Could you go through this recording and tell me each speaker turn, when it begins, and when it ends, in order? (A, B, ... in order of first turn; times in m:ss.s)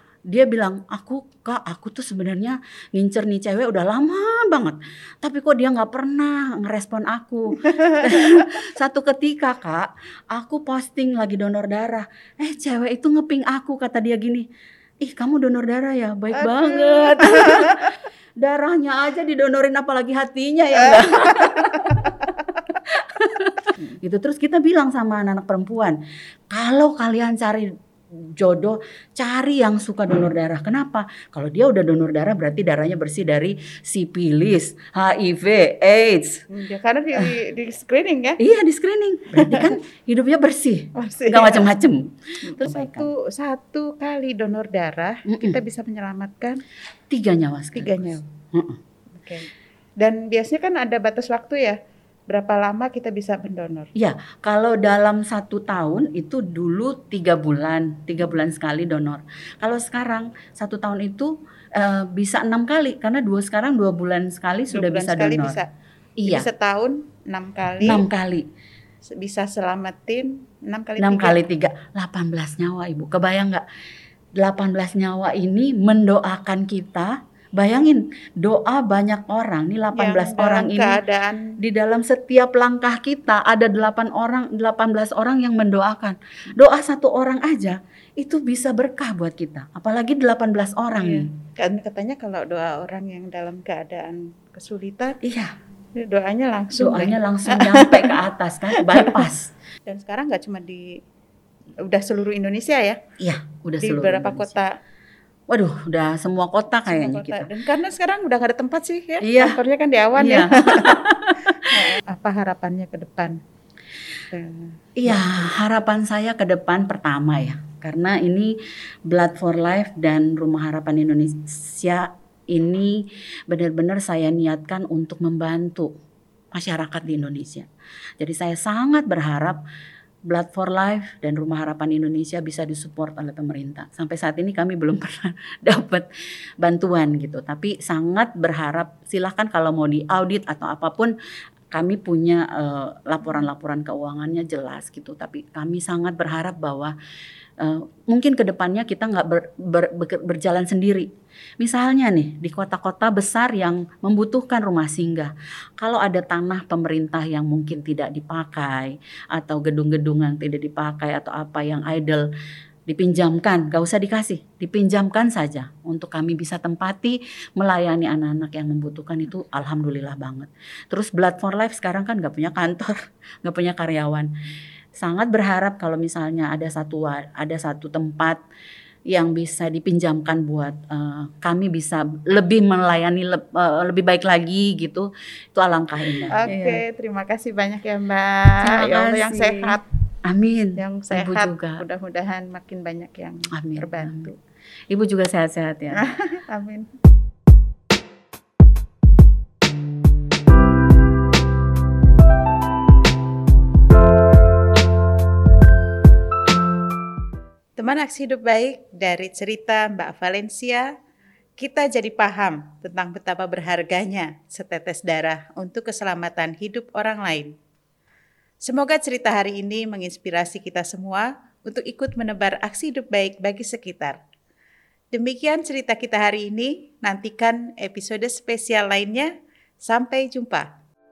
0:00.3-0:14.5 A
0:15.0-0:26.0 A
0:16.4-0:17.9 B
0:20.9-0:22.2 B
0:26.5-0:36.4 A
0:36.5-0:38.4 B
0:38.4-0:43.1 A
0:39.4-0:39.7 B
0:40.9-0:41.7 B
0:42.4-0:46.6 B
0:45.2-0:45.6 A
0:47.1-0:48.8 A
0:47.7-0:48.2 B
0:49.2-0:51.8 B
0:52.3-0:53.9 B
0:54.0-1:05.6 A
1:04.7-1:05.7 B
1:06.2-1:06.5 A
1:06.3-1:08.0 B
1:07.8-1:08.5 A
1:09.1-1:11.4 B
1:11.0-1:13.6 A
1:14.4-1:21.0 A
1:19.9-1:21.6 B
1:21.6-1:31.3 A
1:30.9-1:35.2 B
1:35.2-1:35.5 A
1:36.0-1:38.2 B
1:36.8-1:39.5 A
1:38.8-1:39.2 B
1:39.9-1:41.0 B
1:41.8-1:43.0 B
1:43.2-1:44.5 A
1:43.8-1:44.7 B
1:45.5-1:47.5 A
1:46.9-1:53.4 B
1:49.2-1:49.6 A
1:50.2-1:51.9 A
1:54.3-1:55.2 B
1:55.0-2:05.9 A
2:06.5-2:07.7 A
2:08.2-2:09.6 A
2:10.3-2:16.1 A
2:16.6-2:21.1 A
2:21.7-2:26.9 A
2:27.6-2:31.1 A
2:31.6-2:42.3 A
2:42.9-2:54.3 A
2:54.9-2:58.4 A
2:59.1-3:06.8 A
3:06.3-3:09.8 B
3:08.6-3:11.8 A
3:10.8-3:14.4 B
3:13.5-3:14.3 A
3:14.9-3:16.0 A
3:15.9-3:16.9 B
3:27.8-3:30.9 B
3:31.6-3:37.5 B
3:38.6-3:44.2 B
3:45.1-3:50.7 B